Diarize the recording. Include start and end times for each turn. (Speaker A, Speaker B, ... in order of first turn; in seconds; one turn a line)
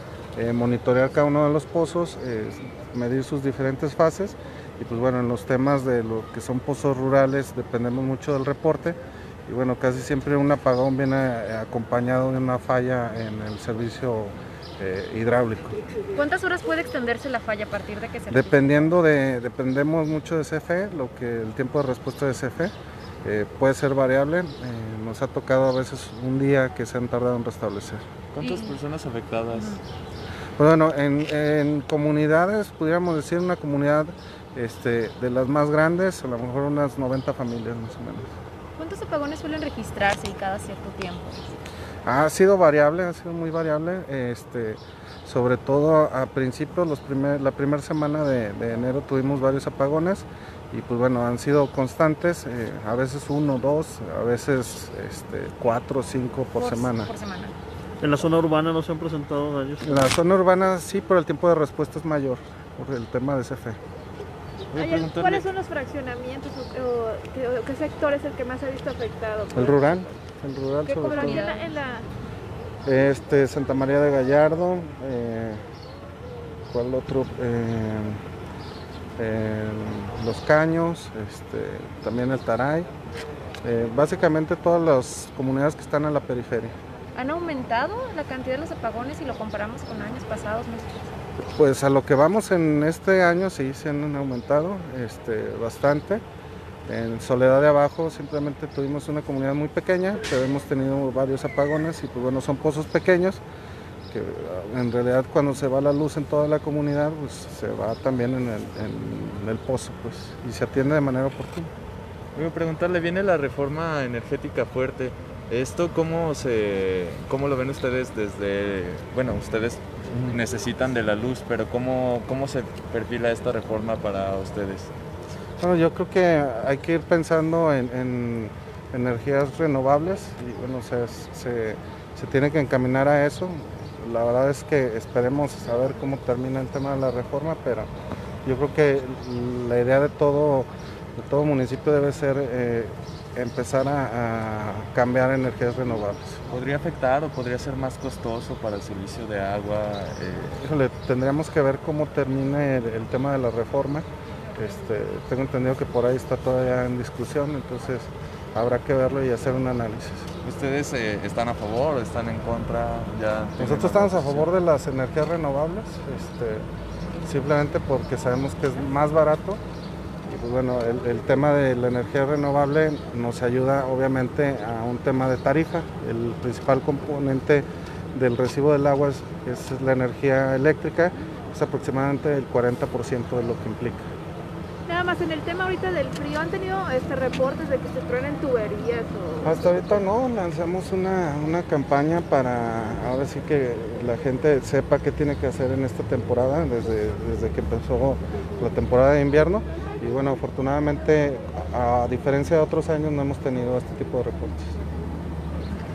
Speaker A: 0.4-15.8
Speaker B: 16.1-18.9
Speaker A: 18.3-22.7
Speaker A: 23.2-28.0
Speaker C: 28.3-29.8
Speaker B: 28.4-28.8
Speaker B: 29.5-29.8
Speaker A: 30.6-38.4
Speaker B: 38.8-41.5
Speaker A: 42.1-57.1
Speaker B: 56.6-57.5
Speaker D: 58.0-60.1
Speaker A: 59.8-63.8
Speaker C: 64.7-65.5
Speaker E: 64.7-69.9
Speaker A: 69.5-71.5
Speaker E: 70.8-72.1
Speaker B: 71.0-71.7
Speaker A: 72.9-75.6
Speaker A: 76.7-78.2
Speaker A: 79.2-82.9
Speaker A: 83.6-86.7
Speaker B: 87.2-91.2
Speaker A: 91.6-96.2
Speaker A: 96.9-103.4
Speaker A: 104.1-111.7
Speaker C: 112.3-124.9
Speaker A: 125.6-137.9
Speaker A: 138.5-146.4
Speaker C: 146.5-150.6
Speaker A: 150.6-160.3
Speaker C: 160.4-164.5
Speaker A: 163.6-166.7
Speaker A: 167.2-169.6
Speaker A: 170.3-184.1
Speaker E: 184.9-190.0
Speaker A: 189.4-204.7